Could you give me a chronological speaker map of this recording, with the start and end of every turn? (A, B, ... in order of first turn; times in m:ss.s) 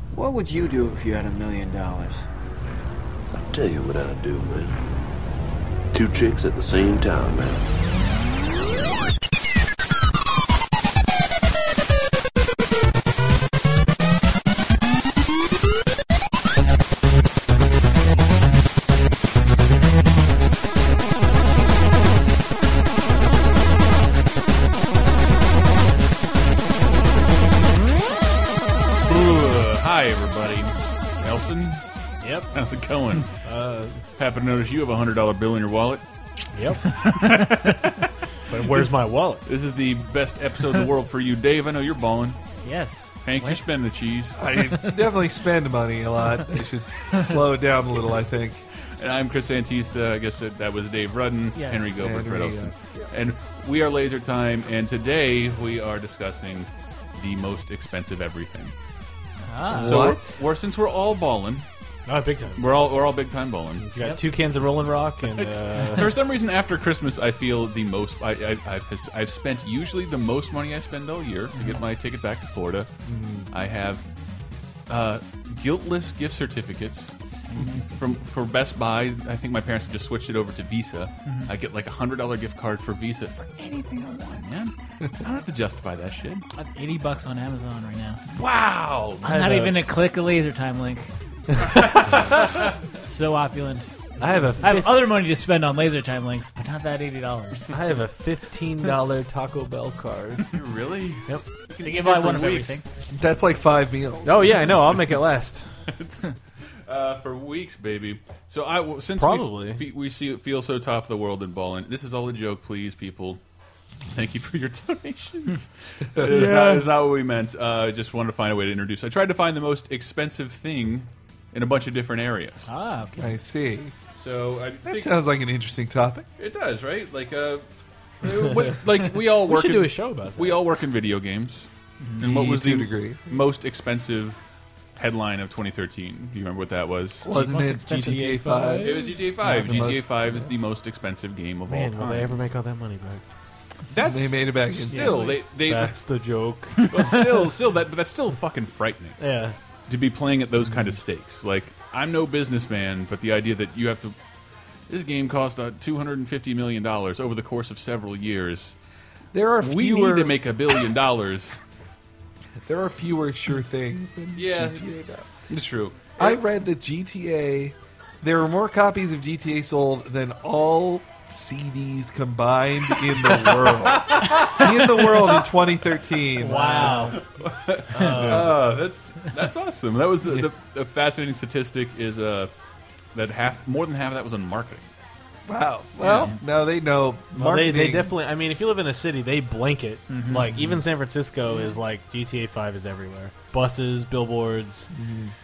0:00.1-0:02.3 A
0:03.3-0:04.8 B
0:05.9-0:07.7 B
0:29.0-0:31.8 C
0:32.2-0:32.5 D
0:32.5-0:33.3 C
0:33.4-0:34.0 D
0:34.2-0:36.0 C
0:36.5-0:36.9 D
0:36.9-0:38.1 C
0:38.5-0:39.5 D
0:39.4-0:42.4 C
0:42.6-0:43.2 E
0:43.2-0:44.4 C
0:44.4-0:48.6 F
0:49.0-0:58.8 C
0:51.6-0:52.0 E
0:52.0-0:53.1 F
0:59.4-1:00.1 E
0:59.7-1:00.1 D
0:59.8-1:01.6 C
0:59.8-1:00.2 F
1:02.1-1:02.7 D
1:02.6-1:03.9 C
1:03.8-1:06.1 D
1:05.3-1:12.9 C
1:13.1-1:13.5 D
1:13.5-1:14.0 C
1:14.9-1:17.2 C
1:17.3-1:17.9 E
1:17.9-1:26.4 C
1:21.3-1:21.5 E
1:26.6-1:28.2 E
1:28.3-1:29.4 C
1:29.2-1:29.8 D
1:29.2-1:31.1 E
1:31.6-1:32.6 C
1:32.2-1:33.9 E
1:34.2-1:35.0 D
1:34.6-1:37.7 E
1:37.7-1:40.5 D
1:40.5-1:42.8 C
1:41.8-1:42.8 E
1:43.1-1:44.7 F
1:44.2-1:45.7 D
1:45.9-1:46.3 C
1:46.9-1:53.4 C
1:49.2-1:49.8 D
1:54.1-2:02.7 C
1:56.2-1:56.9 D
2:02.7-2:03.3 E
2:03.2-2:03.9 F
2:04.2-2:05.1 C
2:04.8-2:06.3 F
2:06.4-2:07.6 C
2:08.2-2:14.4 C
2:09.4-2:10.6 D
2:12.2-2:13.2 F
2:15.0-2:17.3 C
2:17.2-2:20.3 F
2:17.4-2:19.9 D
2:18.8-2:22.4 C
2:21.7-2:23.2 D
2:23.9-2:26.0 C
2:24.0-2:25.3 F
2:24.9-2:25.3 E
2:24.9-2:27.0 D
2:26.8-2:29.2 C
2:29.2-2:29.6 D
2:29.9-2:34.2 C
2:34.9-2:38.8 C
2:39.3-2:40.4 F
2:39.6-2:41.6 C
2:42.6-2:45.2 F
2:44.4-2:46.4 C
2:46.2-2:57.1 F
2:54.0-2:55.4 C
2:56.4-2:57.2 D
2:56.8-2:57.1 E
2:57.2-3:02.5 C
2:57.9-2:58.6 D
2:58.0-2:58.4 E
3:03.1-3:04.9 C
3:05.5-3:08.1 F
3:06.0-3:06.4 C
3:07.3-3:14.9 D
3:10.1-3:10.8 E
3:14.9-3:15.3 F